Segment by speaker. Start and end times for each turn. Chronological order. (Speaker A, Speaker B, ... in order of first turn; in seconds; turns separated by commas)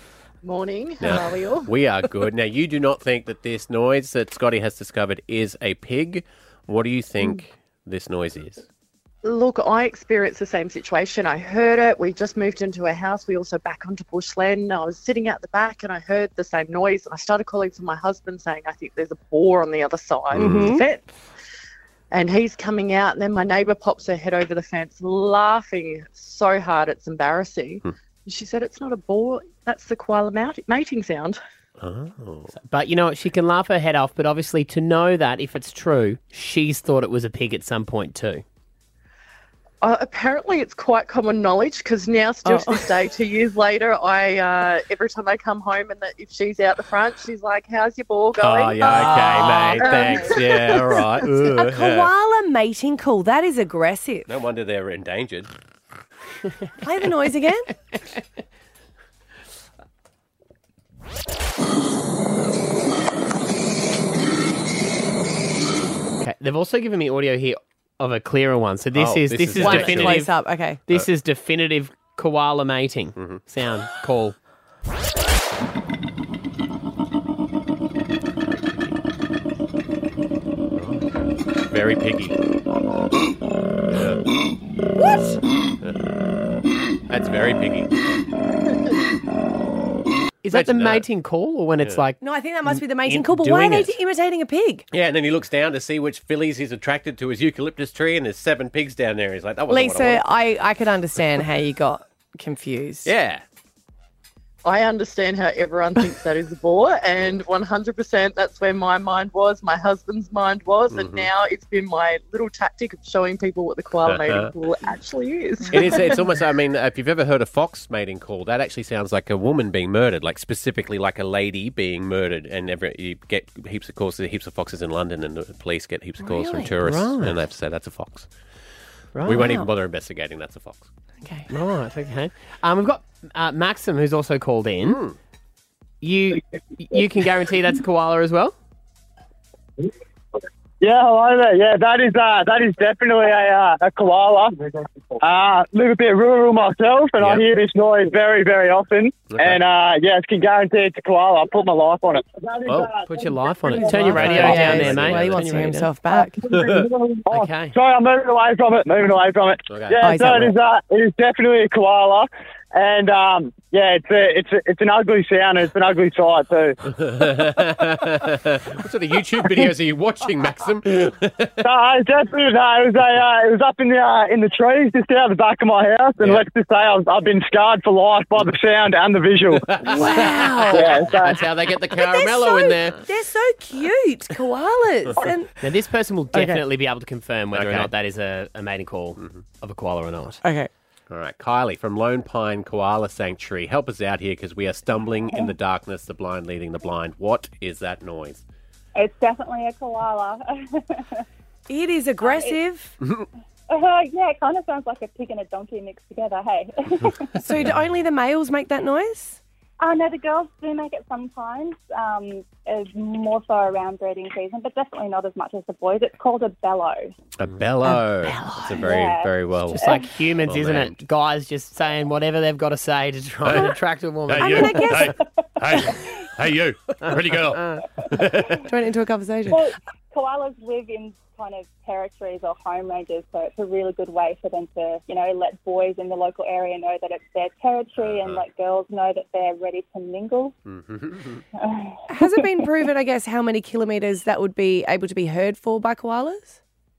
Speaker A: 0.4-1.7, Speaker B: 1.0-8.7, Speaker A: 9.2-21.0, Speaker B: 20.3-20.7, Speaker C: 20.4-20.8, Speaker A: 22.1-31.4, Speaker B: 31.8-32.5, Speaker D: 32.5-38.4, Speaker A: 39.8-50.2, Speaker C: 42.4-42.9, Speaker B: 48.4-52.1, Speaker C: 48.9-50.4, Speaker D: 49.0-49.9, Speaker C: 51.4-54.3, Speaker B: 54.3-55.5, Speaker C: 56.8-57.7, Speaker D: 66.2-74.3, Speaker B: 68.9-70.2, Speaker C: 69.6-70.8, Speaker B: 73.2-73.4, Speaker B: 80.7-82.4, Speaker B: 83.9-84.2, Speaker C: 85.0-85.4, Speaker B: 85.8-86.1, Speaker B: 87.1-87.9, Speaker D: 90.4-92.2, Speaker B: 90.5-91.0, Speaker C: 92.2-94.8, Speaker D: 92.7-93.9, Speaker B: 94.9-100.2, Speaker C: 99.7-103.1, Speaker B: 103.0-103.4, Speaker A: 104.6-116.0, Speaker B: 110.9-111.3, Speaker B: 114.0-114.5, Speaker B: 115.7-128.3, Speaker C: 115.8-116.0, Speaker C: 126.2-126.7, Speaker D: 126.8-127.4, Speaker D: 129.2-129.5, Speaker B: 129.2-130.9, Speaker C: 129.3-129.7, Speaker C: 131.2-131.5, Speaker D: 131.5-135.0, Speaker B: 134.8-135.2, Speaker D: 136.0-138.5, Speaker E: 140.8-144.6, Speaker E: 145.2-152.8, Speaker B: 147.2-147.4, Speaker B: 149.3-149.6, Speaker B: 152.7-152.9, Speaker D: 153.1-155.9, Speaker C: 153.7-156.4, Speaker B: 153.9-155.5, Speaker E: 156.4-166.8, Speaker B: 156.5-156.9, Speaker D: 157.3-157.7, Speaker B: 159.7-160.1, Speaker C: 160.0-160.5, Speaker B: 166.8-171.7, Speaker E: 171.6-179.8, Speaker B: 176.2-176.4, Speaker B: 179.5-183.0, Speaker C: 179.9-181.0, Speaker E: 180.7-181.4, Speaker C: 181.9-185.5, Speaker D: 185.6-190.4, Speaker C: 186.3-186.6, Speaker B: 187.5-187.9, Speaker B: 189.2-189.4, Speaker C: 190.4-190.7, Speaker B: 191.1-198.4, Speaker F: 198.9-201.2, Speaker C: 201.7-202.9, Speaker F: 202.2-202.6, Speaker B: 203.0-203.3, Speaker F: 203.7-207.3, Speaker C: 207.4-209.4, Speaker F: 209.8-217.1, Speaker B: 217.4-221.0, Speaker D: 218.2-218.9, Speaker F: 218.8-220.0, Speaker D: 219.7-225.0, Speaker B: 223.4-223.7, Speaker B: 224.3-228.6, Speaker C: 224.4-225.2, Speaker D: 227.0-227.8, Speaker C: 228.6-229.6, Speaker F: 229.5-240.5, Speaker B: 238.0-238.4, Speaker B: 240.7-241.4, Speaker F: 241.6-242.7, Speaker C: 242.1-246.6